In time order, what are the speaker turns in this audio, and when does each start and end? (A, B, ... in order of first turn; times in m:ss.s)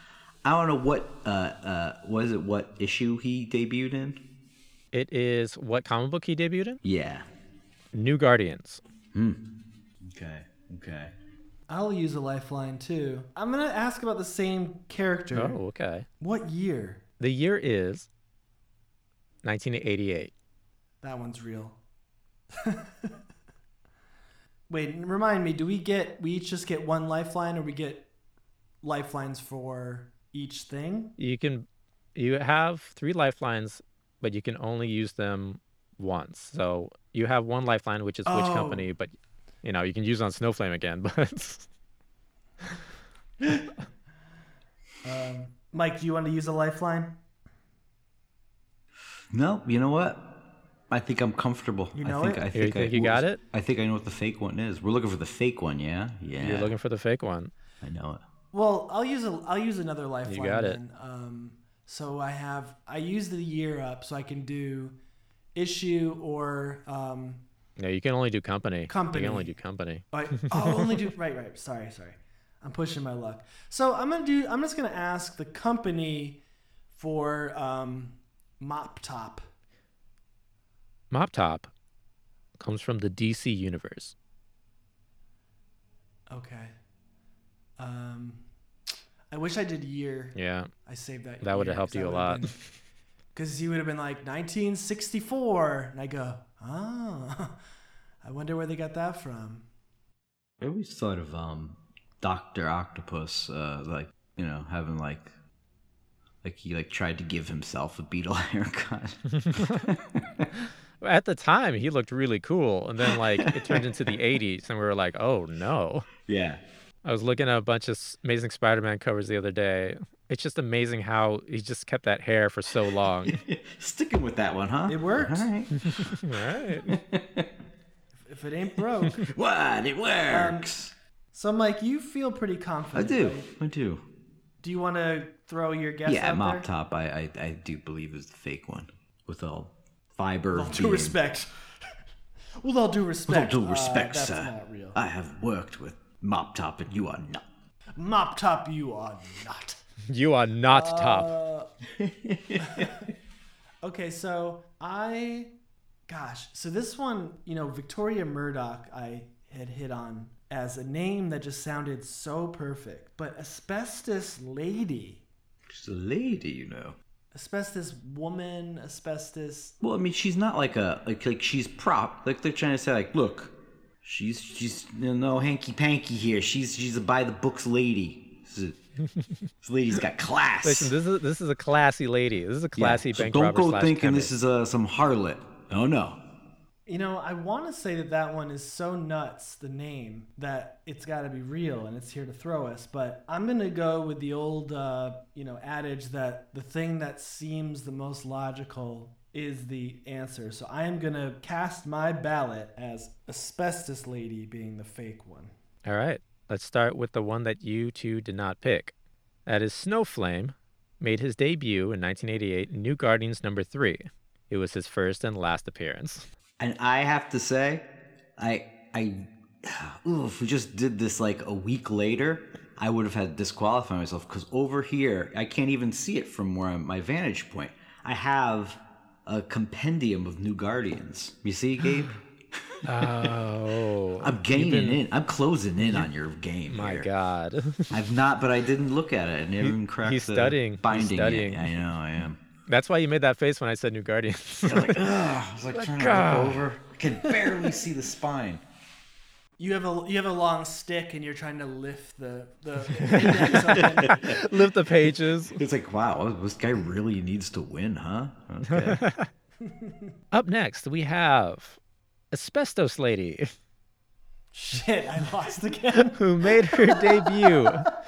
0:00.4-0:04.2 A
0:04.9-0:06.8 B
0:06.8-0:07.3 A
0:07.9-0:08.8 B
0:09.1-0:09.5 A
0:10.0-0:11.1 A
0:11.7-0:15.6 C
0:15.4-0:16.1 B
0:16.2-0:17.0 C
0:17.2-0:18.1 B
0:19.4-0:20.3 B
0:21.0-0:21.8 C
0:22.6-0:23.1 C
0:24.7-0:28.1 C
0:28.8-0:31.2 C
0:31.2-0:41.7 B
0:38.2-0:38.9 C
0:45.0-0:47.2 C
0:49.3-0:56.8 A
0:51.9-0:52.5 C
0:52.5-0:53.4 B
0:56.4-0:57.5 B
0:57.8-0:58.2 A
0:58.5-1:05.0 C
1:00.3-1:00.8 B
1:05.6-1:07.4 C
1:07.8-1:10.0 B
1:08.9-1:09.5 C
1:10.1-1:19.5 C
1:10.6-1:10.9 B
1:21.1-1:21.7 B
1:22.6-1:24.2 B
1:26.3-1:26.8 C
1:27.8-1:28.5 C
1:29.3-1:32.6 C
1:30.4-1:30.7 B
1:31.4-1:32.6 B
1:33.3-1:37.6 C
1:38.2-1:39.7 C
1:40.6-1:45.3 A
1:46.4-1:50.5 A
1:51.0-1:56.1 B
1:53.4-1:53.8 A
1:56.3-1:56.6 A
1:57.0-2:03.4 B
2:03.2-2:07.5 A
2:04.9-2:05.5 C
2:05.9-2:07.0 B
2:08.2-2:09.2 C
2:09.0-2:10.9 A
2:10.3-2:10.7 C
2:11.3-2:13.5 C
2:12.9-2:14.1 A
2:14.6-2:16.6 C
2:16.0-2:21.2 A
2:20.5-2:21.5 C
2:22.6-2:25.0 C
2:23.3-2:27.5 A
2:28.0-2:29.8 C
2:30.1-2:31.3 B
2:30.7-2:31.7 C
2:32.0-2:33.0 A
2:32.6-2:33.0 C
2:33.8-2:35.5 C
2:36.1-2:45.2 C
2:45.7-2:47.0 A
2:47.3-2:49.8 C
2:49.8-2:58.8 A
2:59.6-3:00.9 A
3:00.6-3:04.3 B
3:02.8-3:06.3 A
3:06.9-3:25.5 C
3:25.8-3:28.9 B
3:29.5-3:36.3 B
3:36.6-3:53.1 A
3:52.8-3:55.0 B
3:54.2-3:57.1 A
3:56.7-3:58.0 B
3:57.9-4:02.4 A
3:59.6-4:01.7 B
4:02.7-4:05.1 B
4:04.6-4:08.6 A
4:05.8-4:06.7 B
4:07.2-4:07.7 B
4:09.6-4:14.3 C
4:13.0-4:15.6 B
4:13.2-4:14.4 A
4:15.5-4:19.0 A
4:18.7-4:19.3 B
4:19.6-4:20.1 C
4:20.3-4:21.8 B
4:22.3-4:23.5 B
4:24.5-4:27.9 C
4:26.1-4:27.9 B